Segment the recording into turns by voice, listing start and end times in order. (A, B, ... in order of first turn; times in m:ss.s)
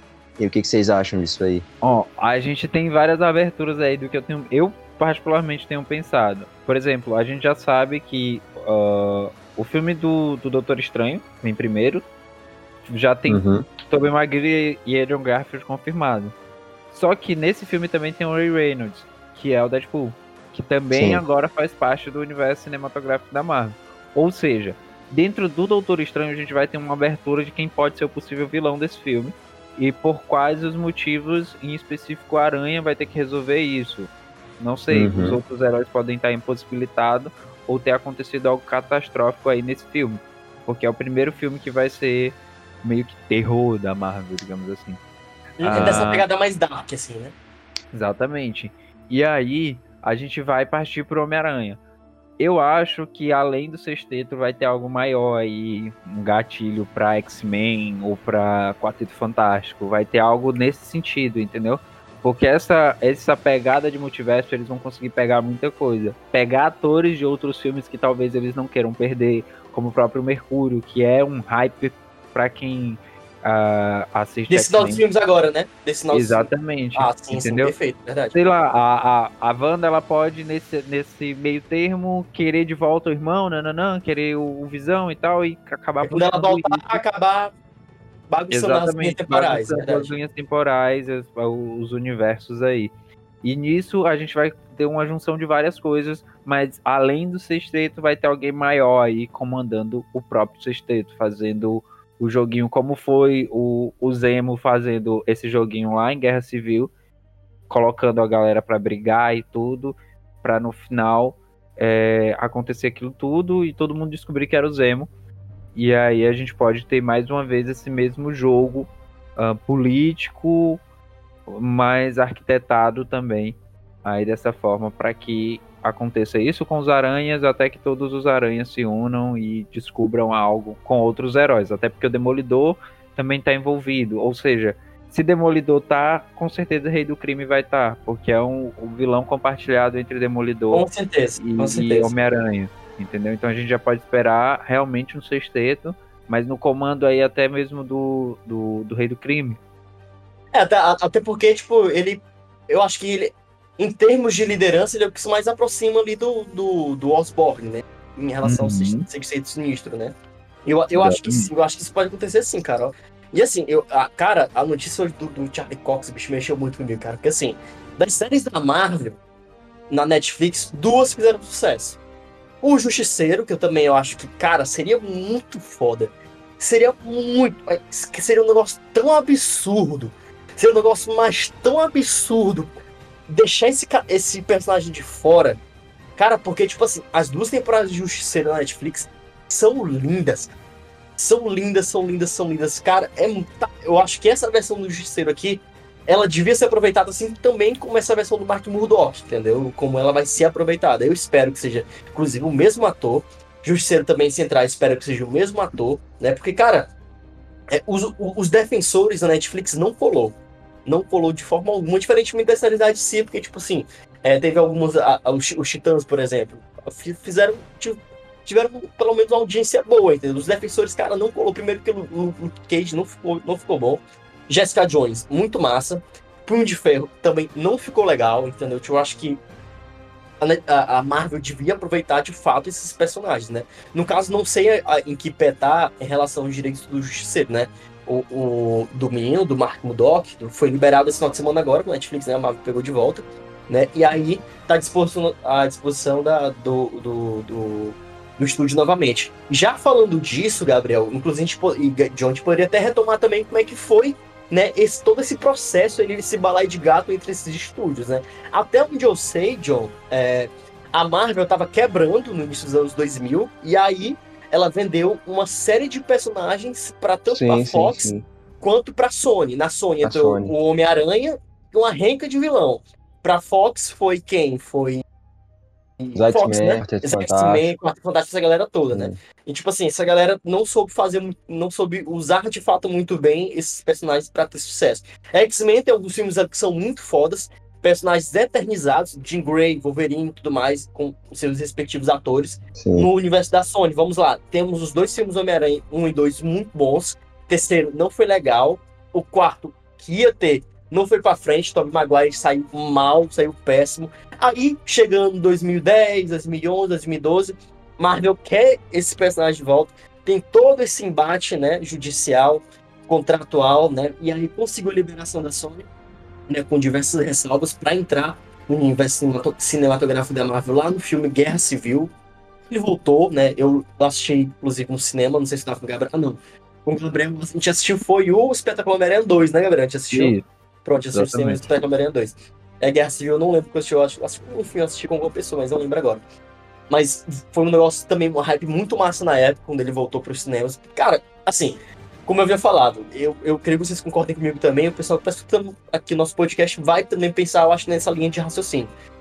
0:00.4-0:01.6 A
0:01.8-0:12.0 B
0:12.8-0:16.3 B
0:13.3-0:13.7 A
0:16.9-0:45.0 B
0:20.9-0:21.2 A
0:34.9-0:35.4 A
0:45.6-0:47.3 C
0:45.6-0:46.3 B
0:47.9-0:51.8 B
0:52.4-1:15.0 B
1:14.5-1:18.4 C
1:16.1-1:17.7 B
1:18.3-1:27.0 B
1:26.0-1:27.5 C
1:28.3-1:30.1 C
1:28.5-1:32.9 B
1:33.4-1:46.9 B
1:47.7-1:55.1 B
1:55.8-2:00.8 B
2:01.5-2:20.8 B
2:20.7-2:22.2 C
2:21.4-2:29.6 B
2:30.5-2:49.2 C
2:38.4-2:39.0 B
2:41.0-2:41.5 B
2:49.9-2:52.0 C
2:52.6-3:02.7 C
3:03.3-3:05.6 C
3:06.2-3:10.6 C
3:11.2-3:26.9 C
3:27.7-3:49.4 C
3:50.4-4:35.0 C
4:27.3-4:28.2 A
4:30.0-4:30.5 A
4:36.0-5:15.9 C
4:36.1-4:37.7 A
4:38.9-4:39.2 A
4:52.8-4:53.1 A
5:16.5-5:22.1 C
5:22.7-5:36.2 C
5:30.1-5:30.4 B
5:31.1-5:31.7 B
5:36.9-5:48.9 C